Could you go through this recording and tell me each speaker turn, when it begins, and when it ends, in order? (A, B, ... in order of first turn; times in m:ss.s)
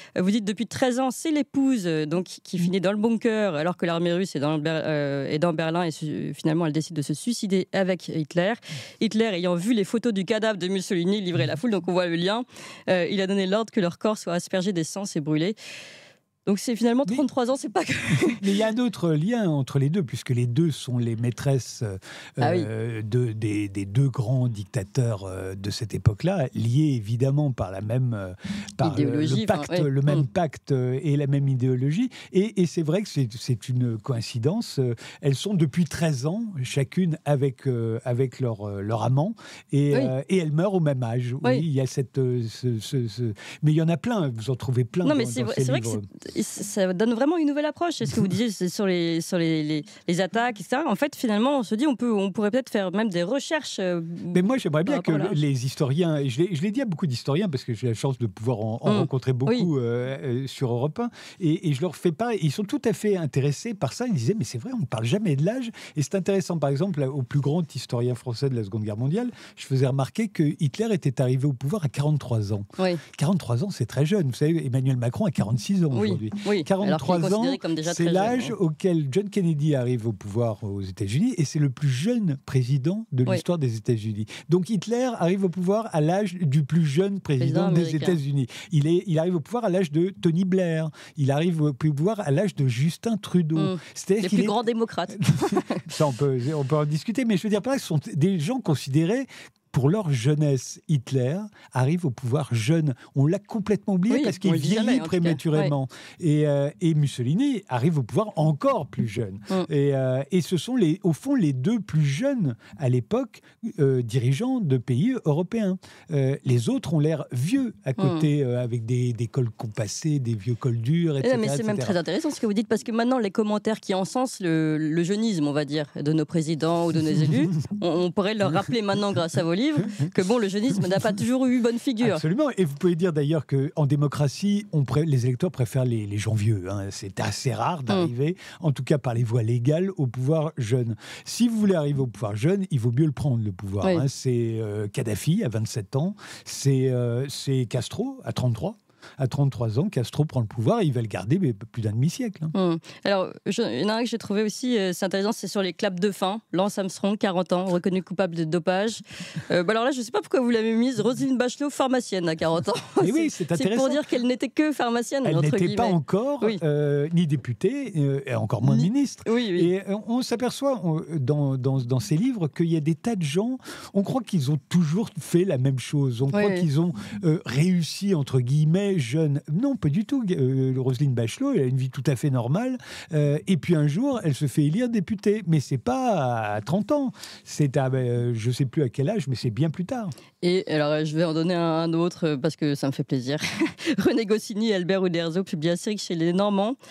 0:00.2-0:15.6 A
0:16.5-0:18.5 A
0:18.2-0:46.0 B
0:22.4-0:22.7 A
0:28.8-0:30.2 A
0:45.0-0:55.4 A
0:54.3-1:34.6 B
0:58.8-0:59.7 A
1:15.9-1:18.6 A
1:27.4-1:28.2 A
1:33.6-1:35.9 A
1:35.1-2:02.0 B
1:44.1-1:45.7 A
1:58.0-1:58.3 A
2:01.2-2:12.2 A
2:12.0-2:32.5 B
2:32.6-2:46.6 A
2:43.0-2:44.0 B
2:45.2-3:10.1 B
2:48.7-2:49.7 A
2:56.3-2:56.7 A
3:10.4-3:16.8 A